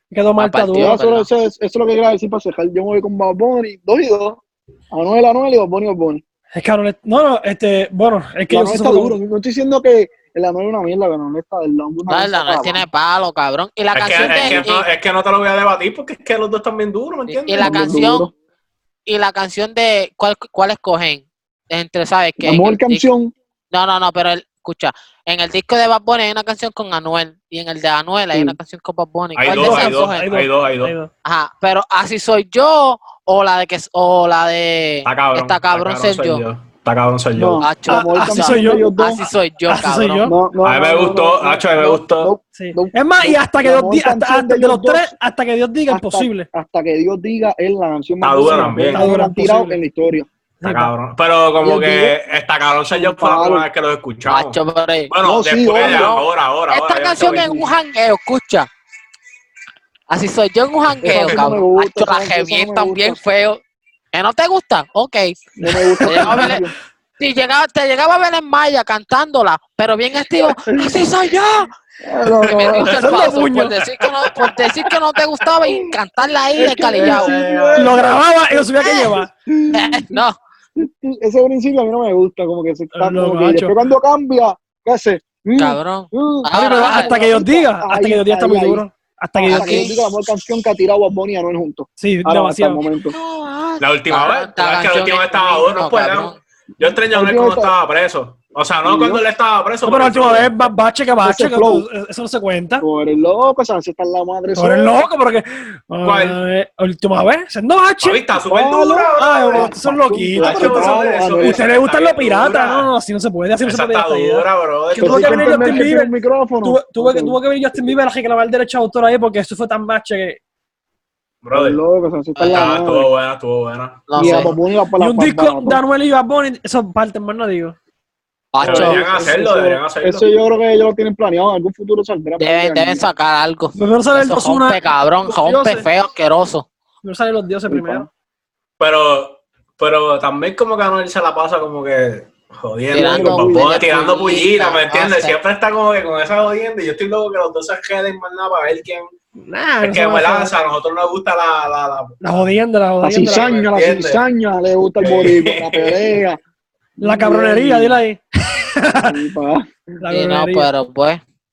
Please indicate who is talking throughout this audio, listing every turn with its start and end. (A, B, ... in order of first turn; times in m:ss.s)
0:00.1-0:01.0 A
0:00.4-0:01.3 B
0:00.7-0:04.4 C
0:04.9-0:06.2 C
0:06.5-0:09.2 A
0:08.5-0:12.9 C
0:12.1-0:14.8 B
0:13.9-0:18.0 D
0:17.3-0:18.3 B
0:17.6-0:18.3 C
0:19.1-0:23.0 B
0:22.4-0:23.3 C
0:23.7-0:30.2 B
0:29.4-0:30.9 D
0:29.5-0:31.1 A
0:31.2-0:36.4 B
0:35.0-0:37.6 D
0:37.4-0:39.2 C
0:37.6-0:40.3 B
0:37.9-0:38.9 A
0:39.7-0:40.3 A
0:40.2-0:45.1 C
0:40.6-0:42.3 D
0:42.5-0:46.5 A
0:45.9-0:50.3 C
0:48.2-0:49.1 D
0:48.4-0:49.8 A
0:50.6-0:50.9 A
0:50.6-0:54.6 D
0:51.6-0:52.1 C
0:52.9-0:53.7 C
0:54.3-0:55.1 B
0:55.1-0:57.7 D
0:55.2-0:56.1 C
0:55.8-0:58.7 B
1:00.1-1:03.6 B
1:01.0-1:03.2 C
1:01.0-1:01.4 D
1:04.1-1:05.4 B
1:05.6-1:06.7 C
1:05.6-1:06.6 A
1:06.0-1:06.6 B
1:07.2-1:11.7 B
1:12.0-1:13.1 C
1:12.4-1:17.3 B
1:12.4-1:12.9 D
1:13.0-1:13.9 A
1:14.0-1:14.7 D
1:16.6-1:18.1 C
1:16.6-1:18.2 D
1:17.7-1:19.3 A
1:18.8-1:19.1 B
1:19.4-1:20.2 C
1:19.7-1:20.4 B
1:20.8-1:28.8 C
1:22.9-1:23.8 A
1:25.6-1:27.1 B
1:26.5-1:29.9 A
1:29.4-1:33.2 C
1:29.5-1:30.0 B
1:32.0-1:32.8 A
1:33.1-1:36.4 B
1:33.8-1:40.7 D
1:37.1-1:37.7 C
1:38.8-1:39.2 C
1:39.8-1:42.8 A
1:41.2-1:41.8 C
1:42.8-1:45.0 C
1:44.5-1:48.2 A
1:46.0-1:46.4 D
1:48.0-1:49.7 D
1:48.4-1:51.6 C
1:49.2-1:56.1 A
1:50.4-1:52.9 D
1:53.6-1:55.9 D
1:55.0-1:57.4 C
1:56.6-2:00.4 A
2:01.4-2:01.8 D
2:01.5-2:03.1 C
2:02.4-2:02.8 B
2:02.5-2:04.4 D
2:04.1-2:04.5 B
2:04.2-2:05.8 C
2:04.2-2:07.8 A
2:08.5-2:09.0 B
2:08.6-2:13.1 C
2:08.6-2:10.2 D
2:12.4-2:16.6 B
2:13.7-2:15.8 A
2:17.0-2:18.1 A
2:17.7-2:18.1 C
2:18.8-2:29.1 D
2:22.9-2:25.4 B
2:22.9-2:23.7 C
2:29.4-2:30.5 A
2:29.8-2:32.4 D
2:32.2-2:33.5 A
2:33.0-2:36.4 C
2:33.2-2:34.2 D
2:35.0-2:36.0 D
2:37.0-2:38.0 C
2:37.0-2:39.2 A
2:38.9-2:39.7 C
2:40.0-2:40.7 A
2:40.1-2:41.2 B